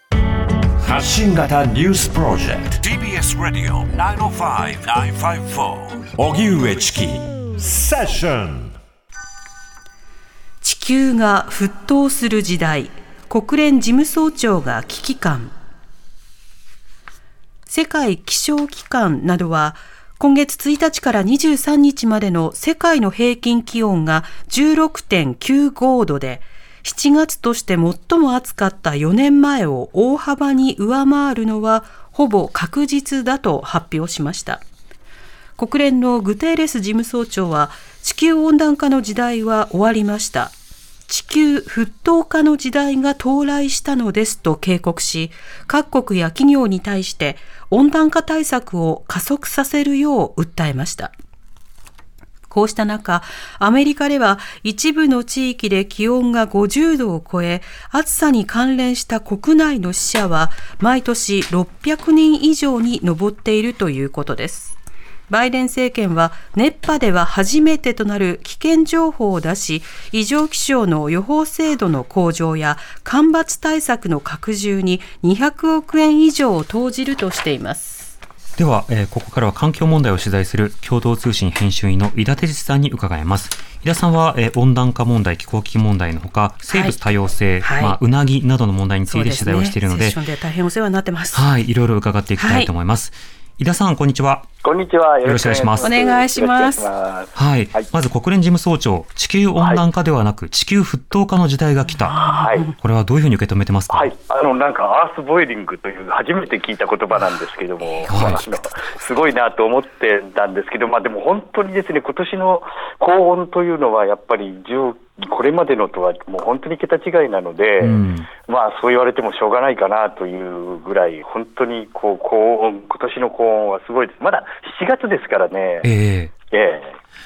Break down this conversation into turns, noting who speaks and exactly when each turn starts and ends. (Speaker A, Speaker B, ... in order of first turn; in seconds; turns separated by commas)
Speaker A: 0.8-8.8, Speaker B: 10.6-15.5, Speaker B: 17.7-34.6, Speaker B: 35.6-40.5, Speaker B: 41.1-51.1, Speaker B: 52.5-64.8, Speaker B: 65.3-78.1, Speaker C: 78.6-90.2, Speaker B: 86.7-87.0, Speaker B: 87.6-88.0, Speaker B: 89.1-91.5, Speaker C: 91.3-94.5, Speaker B: 92.4-92.7, Speaker D: 94.6-97.9, Speaker C: 95.2-95.9, Speaker B: 95.8-96.9, Speaker C: 97.3-102.2, Speaker D: 99.6-99.8, Speaker B: 102.1-102.6, Speaker D: 102.2-102.7, Speaker C: 102.8-104.1, Speaker D: 103.9-125.9, Speaker C: 108.1-108.4, Speaker C: 117.8-118.3, Speaker C: 125.8-126.3, Speaker D: 126.5-127.0